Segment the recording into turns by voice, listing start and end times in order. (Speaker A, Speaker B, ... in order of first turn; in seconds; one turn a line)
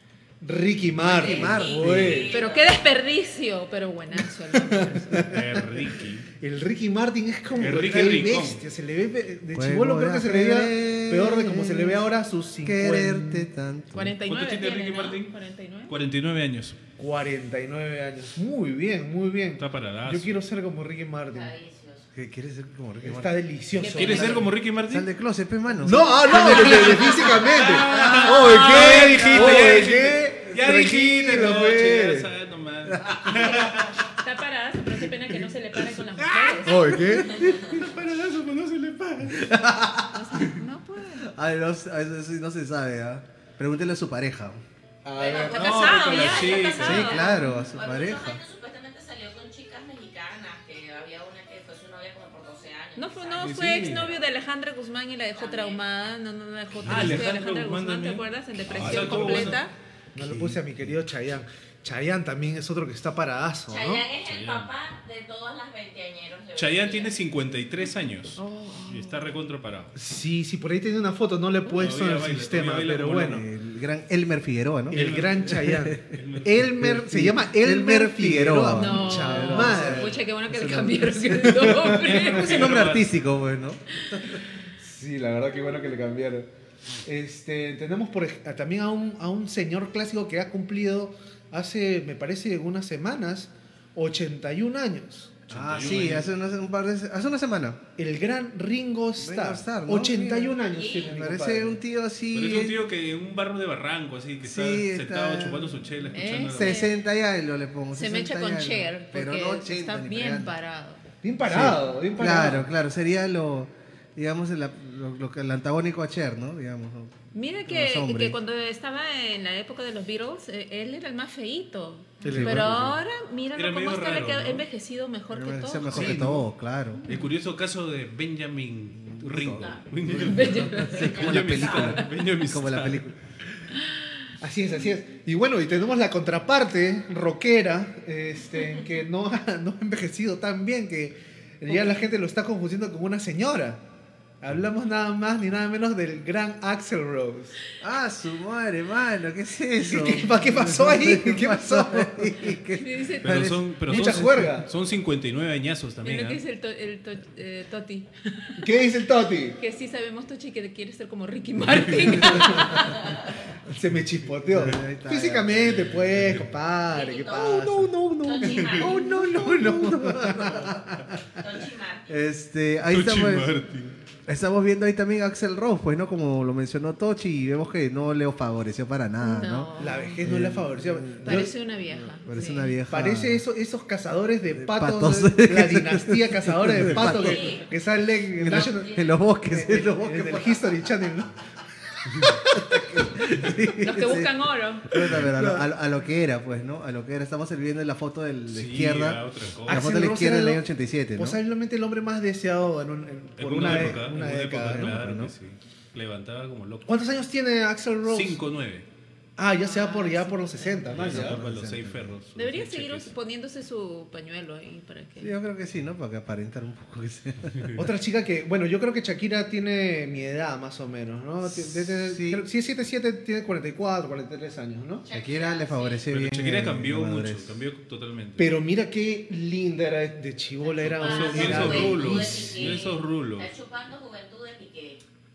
Speaker A: 0.4-2.4
Speaker B: 1.0-2.3
Speaker C: 1.0-2.8
Speaker D: 2.3-5.2
Speaker A: 4.5-5.6
Speaker E: 5.3-6.2
Speaker A: 6.4-13.5
Speaker E: 7.5-8.6
Speaker B: 9.5-14.2
Speaker D: 13.9-15.9
Speaker E: 14.2-15.3
Speaker E: 15.9-16.8
Speaker A: 17.0-21.5
Speaker E: 19.6-20.3
Speaker C: 21.3-22.1
Speaker B: 22.1-23.3
Speaker A: 23.0-24.5
Speaker D: 23.8-24.4
Speaker E: 23.9-25.1
Speaker B: 24.9-29.7
Speaker A: 25.8-32.3
Speaker E: 26.2-34.0
Speaker B: 32.9-33.6
Speaker D: 33.3-36.9
Speaker E: 36.1-36.6
Speaker A: 36.6-37.6
Speaker B: 37.0-37.6
Speaker E: 37.3-39.5
Speaker B: 39.2-40.6
Speaker D: 40.1-41.3
Speaker B: 41.2-44.6
Speaker A: 45.0-46.8
Speaker C: 45.2-54.2
Speaker E: 45.5-47.2
Speaker D: 45.7-47.5
Speaker B: 46.8-48.4
Speaker D: 53.0-59.7
Speaker E: 53.4-54.1
Speaker C: 55.4-55.8
Speaker E: 56.9-59.6
Speaker A: 58.8-59.5
Speaker A: 60.1-64.0
Speaker B: 60.2-60.9
Speaker C: 63.7-67.2
Speaker E: 64.2-64.7
Speaker E: 66.5-69.9
Speaker D: 68.4-69.3
Speaker A: 69.9-73.4
Speaker E: 71.7-73.4
Speaker B: 73.3-84.4
Speaker E: 74.9-76.7
Speaker A: 74.9-80.2
Speaker D: 78.8-82.6
Speaker A: 81.5-82.0
Speaker E: 81.9-83.2
Speaker A: 84.8-86.5
Speaker A: 87.0-95.4
Speaker E: 95.5-96.3
Speaker B: 95.5-97.8
Speaker A: 98.0-101.8
Speaker B: 99.2-102.8
Speaker C: 100.7-101.2
Speaker E: 102.3-106.8
Speaker B: 104.4-106.0
Speaker D: 106.1-107.0
Speaker B: 106.5-110.5
Speaker D: 107.9-111.0
Speaker A: 111.2-112.7
Speaker B: 111.4-118.4
Speaker D: 117.3-126.2
Speaker A: 122.2-122.6
Speaker B: 122.2-123.0
Speaker E: 122.3-122.7
Speaker E: 123.5-124.7
Speaker B: 125.3-127.0
Speaker E: 125.9-126.5
Speaker D: 127.0-127.3
Speaker E: 127.1-133.0
Speaker B: 129.0-133.2
Speaker C: 129.5-129.8
Speaker D: 130.2-131.3
Speaker C: 131.0-132.0
Speaker A: 134.4-143.8
Speaker A: 144.4-147.6
Speaker B: 147.8-154.5
Speaker A: 149.8-152.5
Speaker D: 152.7-153.3
Speaker E: 153.2-156.4
Speaker A: 153.8-154.7
Speaker D: 156.0-158.6
Speaker A: 158.6-159.6
Speaker D: 159.6-163.1
Speaker B: 162.1-162.8
Speaker A: 162.1-162.8
Speaker A: 163.6-167.9
Speaker B: 164.5-166.5
Speaker C: 166.9-167.6
Speaker B: 167.3-170.8
Speaker C: 168.2-169.0
Speaker A: 168.6-171.2
Speaker C: 171.3-172.1
Speaker B: 172.1-173.6
Speaker E: 172.9-173.9
Speaker B: 174.2-183.4
Speaker D: 179.2-180.2
Speaker A: 179.8-181.5
Speaker D: 181.2-182.8
Speaker A: 182.9-191.4
Speaker B: 184.5-187.5
Speaker C: 186.9-187.7
Speaker B: 188.4-190.6
Speaker C: 188.6-189.2
Speaker A: 192.1-193.0
Speaker B: 192.5-194.3
Speaker D: 193.8-194.9
Speaker B: 194.8-201.4
Speaker A: 195.1-195.7
Speaker E: 198.5-200.0
Speaker A: 199.7-200.6
Speaker A: 201.2-204.9
Speaker E: 203.4-206.9
Speaker B: 203.6-205.3
Speaker A: 206.8-208.4
Speaker E: 208.0-208.8
Speaker A: 209.4-211.4
Speaker D: 209.6-210.9
Speaker E: 210.9-213.1
Speaker B: 211.0-212.2
Speaker D: 212.3-215.3
Speaker B: 215.2-217.7
Speaker A: 217.8-225.1
Speaker B: 221.4-222.4
Speaker C: 225.0-226.1
Speaker B: 225.1-227.6
Speaker E: 226.1-228.5
Speaker A: 228.4-232.7
Speaker C: 230.6-235.0
Speaker E: 230.8-233.5
Speaker B: 231.6-232.1